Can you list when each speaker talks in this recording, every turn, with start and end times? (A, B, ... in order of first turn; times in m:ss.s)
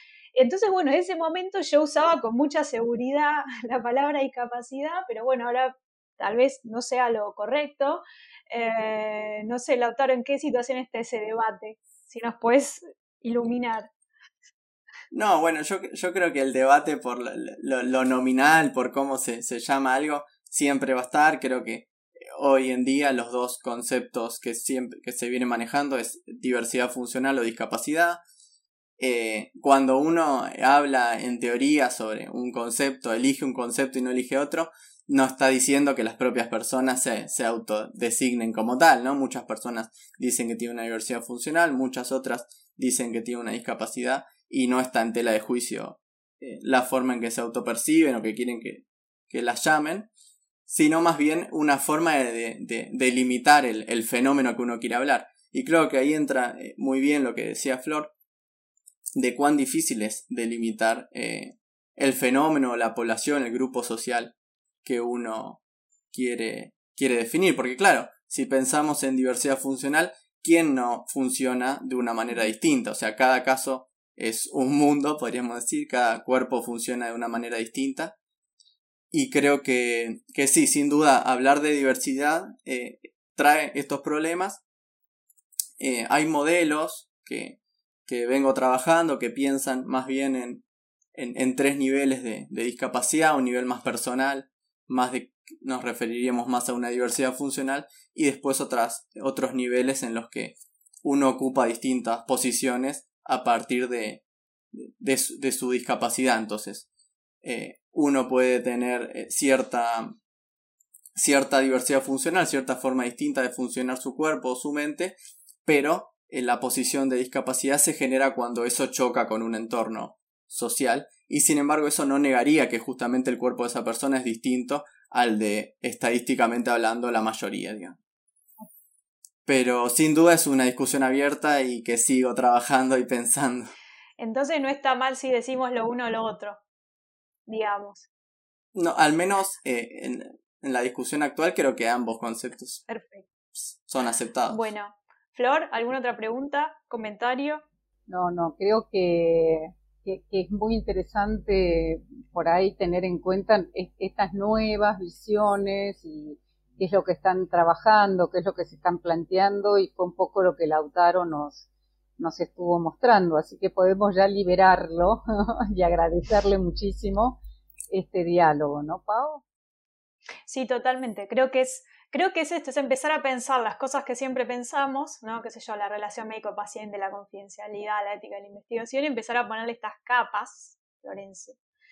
0:00.4-0:13.9 A
0:15.1-0:28.2 B
0:29.0-0:50.1 B
0:50.7-0:58.1 B
0:59.2-1:05.6 B
1:06.1-1:18.1 B
1:19.1-1:24.6 B
1:25.8-1:30.6 B
1:31.1-1:44.2 B
1:44.7-1:46.9 B
1:47.4-1:50.1 B
1:51.1-2:08.0 B
2:09.4-2:13.7 B
2:14.2-2:16.6 A
2:17.5-2:18.1 A
2:18.7-2:22.8 B
2:22.9-2:23.3 A
2:23.7-2:24.7 B
2:24.5-2:27.6 A
2:28.1-2:41.7 C
2:42.2-2:49.4 C
2:50.4-3:01.6 A